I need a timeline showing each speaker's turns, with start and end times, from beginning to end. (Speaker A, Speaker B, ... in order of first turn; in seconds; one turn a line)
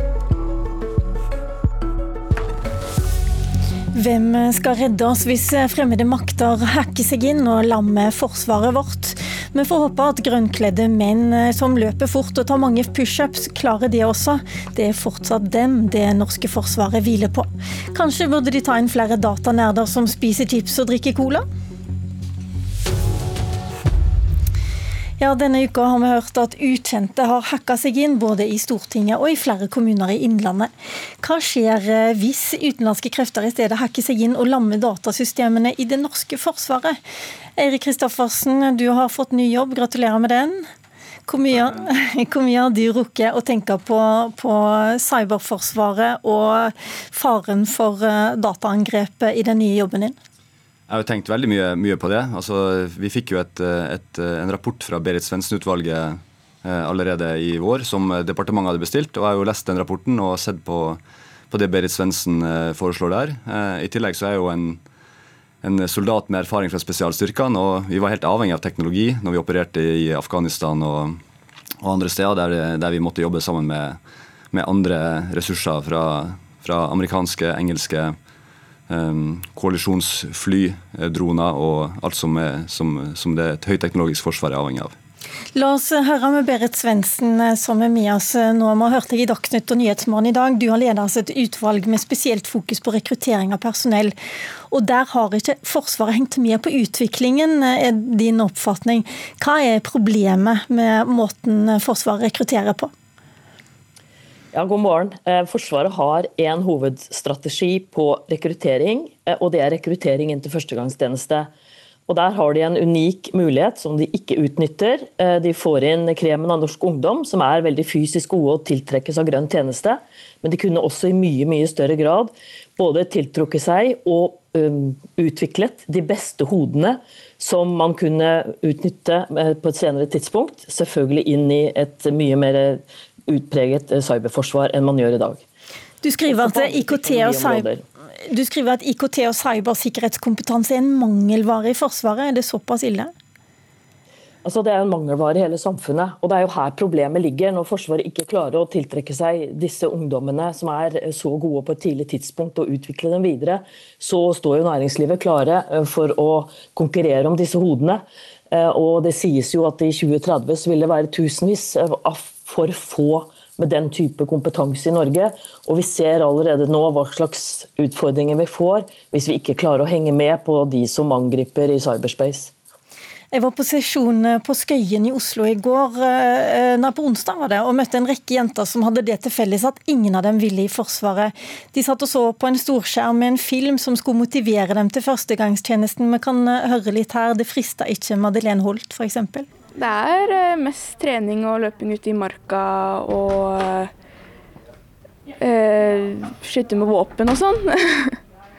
Speaker A: 3.9-21.4
Speaker A: 25.2-30.7
Speaker A: 31.2-37.0
Speaker A: 37.6-40.6
Speaker A: 41.3-50.1
Speaker B: 50.9-61.0
Speaker B: 61.5-64.8
Speaker B: 65.6-71.2
Speaker B: 71.8-74.0
Speaker B: 74.5-78.2
Speaker B: 78.9-84.9
Speaker A: 85.5-94.1
Speaker A: 94.7-102.9
Speaker C: 104.5-111.5
Speaker C: 112.1-135.4
Speaker A: 136.0-137.6
Speaker C: 136.3-137.8
Speaker A: 138.3-143.1
Speaker C: 144.4-172.5
Speaker A: 173.3-189.5
Speaker D: 189.7-193.9
Speaker D: 195.4-198.2